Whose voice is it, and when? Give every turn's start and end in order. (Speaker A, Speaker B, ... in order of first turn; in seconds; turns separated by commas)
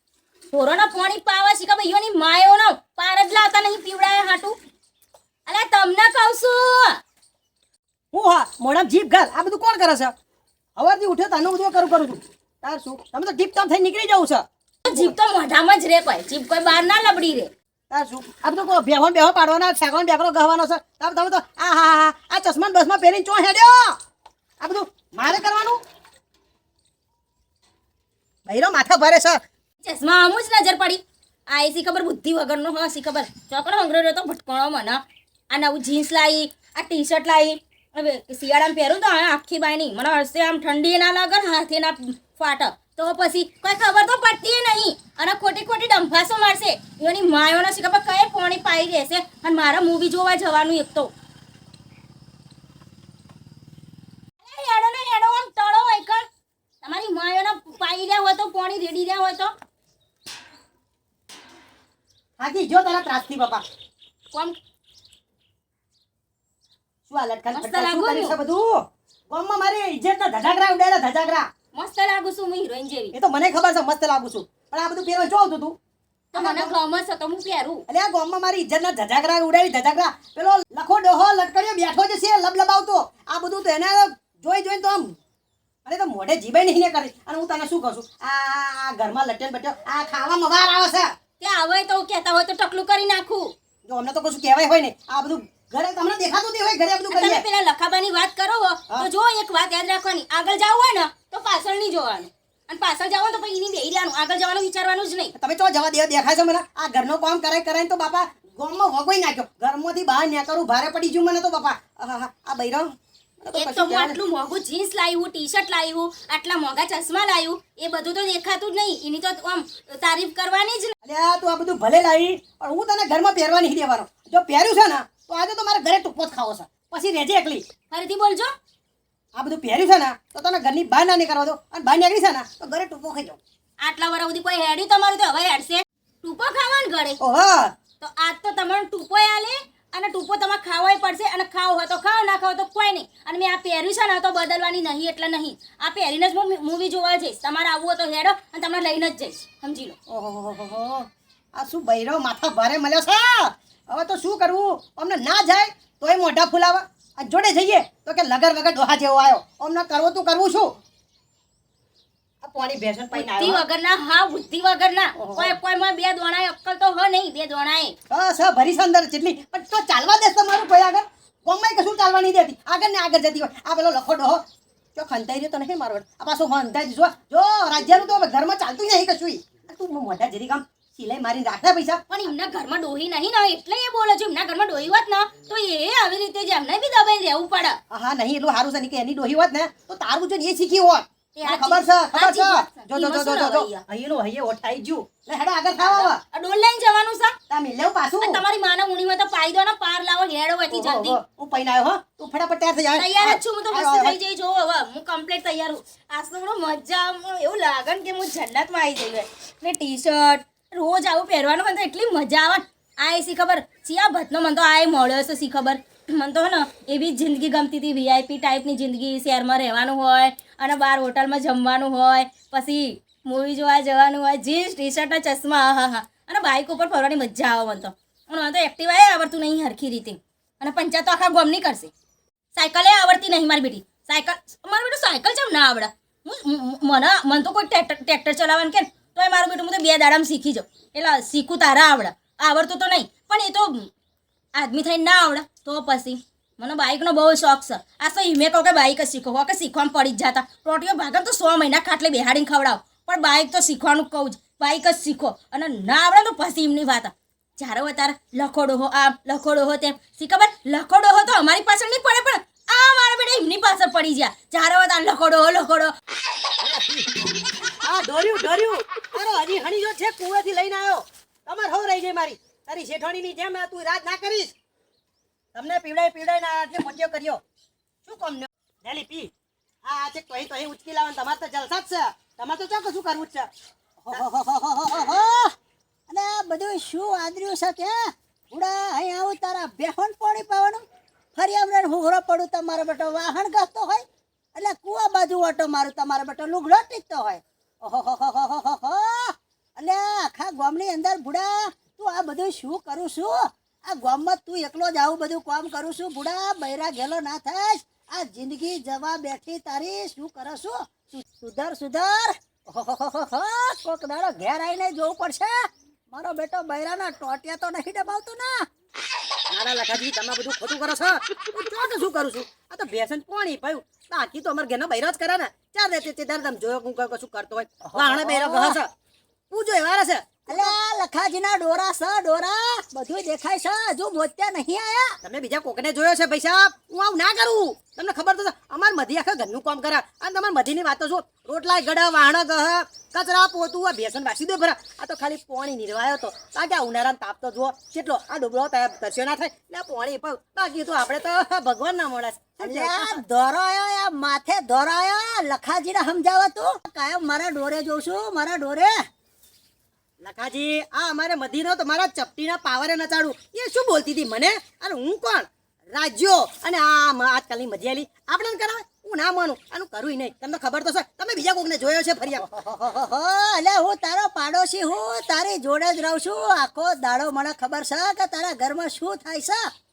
Speaker A: 0.5-4.6, Speaker A: 5.5-7.0, Speaker B: 8.1-10.1, Speaker B: 10.8-15.1, Speaker A: 14.8-17.5, Speaker B: 17.9-24.0, Speaker B: 24.6-25.8, Speaker B: 28.5-29.4, Speaker A: 29.8-51.1, Speaker A: 54.4-56.2, Speaker A: 56.8-59.5, Speaker B: 62.4-63.6, Speaker B: 67.1-71.5, Speaker A: 67.5-68.3, Speaker A: 71.7-73.1, Speaker B: 73.1-75.8, Speaker A: 76.3-77.8, Speaker B: 76.3-76.7, Speaker B: 77.9-85.1, Speaker B: 85.8-91.1, Speaker A: 91.4-93.5, Speaker B: 93.9-97.4, Speaker A: 97.1-105.3, Speaker B: 105.3-112.9, Speaker B: 113.4-114.2, Speaker A: 113.5-120.9, Speaker B: 121.0-127.6, Speaker A: 127.9-128.5, Speaker B: 129.3-133.4, Speaker A: 133.8-137.2, Speaker B: 137.2-137.7, Speaker A: 138.0-149.9, Speaker B: 150.1-160.7, Speaker B: 162.4-163.6, Speaker A: 163.1-167.9, Speaker B: 165.2-165.6, Speaker B: 168.1-174.4, Speaker B: 174.9-182.0, Speaker A: 182.1-187.8, Speaker B: 187.9-196.2, Speaker A: 191.3-193.8, Speaker A: 195.8-197.4, Speaker B: 197.5-198.4, Speaker A: 198.2-201.2, Speaker B: 200.7-204.2, Speaker A: 202.9-231.9, Speaker A: 232.5-243.9, Speaker A: 244.5-265.9, Speaker B: 266.6-267.2, Speaker B: 267.8-274.5, Speaker B: 275.5-277.4, Speaker B: 278.0-279.3, Speaker B: 279.8-283.5, Speaker C: 284.1-285.5, Speaker C: 286.1-288.0, Speaker C: 288.5-290.8, Speaker C: 291.3-315.6, Speaker C: 316.1-318.6, Speaker B: 319.5-328.9, Speaker C: 327.9-328.8, Speaker B: 329.5-330.7, Speaker C: 330.5-335.2, Speaker B: 335.2-353.2, Speaker C: 352.6-358.9, Speaker B: 360.2-372.4, Speaker C: 372.4-379.6